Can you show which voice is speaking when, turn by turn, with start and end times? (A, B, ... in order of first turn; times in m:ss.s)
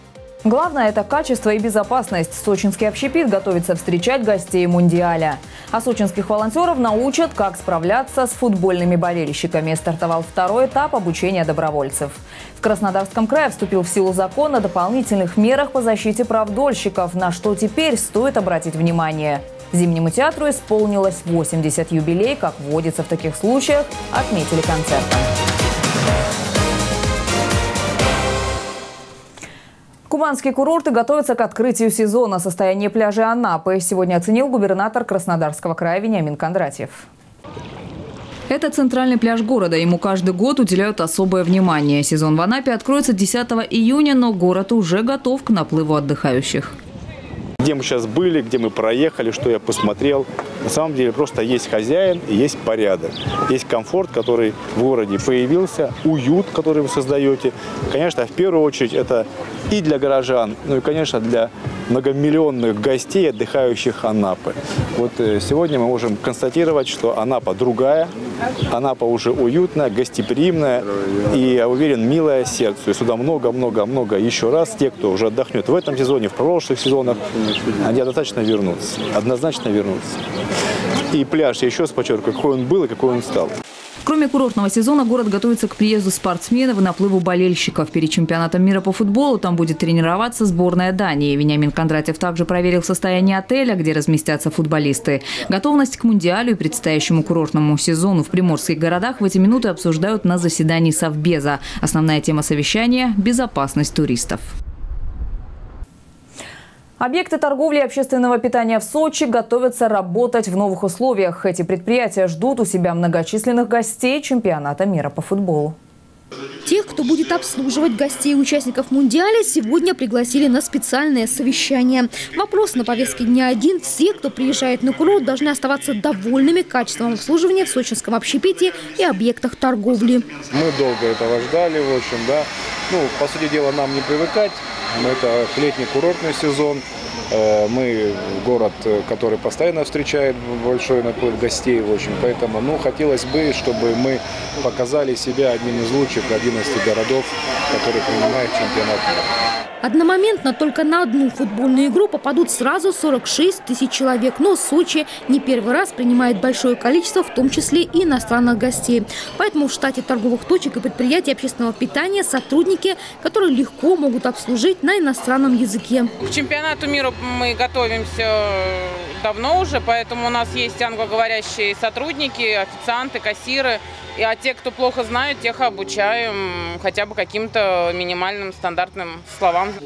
0:00.4-0:25.3 A
0:30.1-0:37.1 A
0:38.5-0:46.8 A
0:47.6-1:08.1 B
1:08.7-1:17.2 B
1:17.8-1:20.2 B
1:21.1-1:23.6 B
1:24.0-1:44.5 A
1:47.0-1:55.8 A
1:56.6-2:10.3 C
2:10.5-2:29.1 D
2:29.8-2:46.1 C
2:46.2-2:59.8 E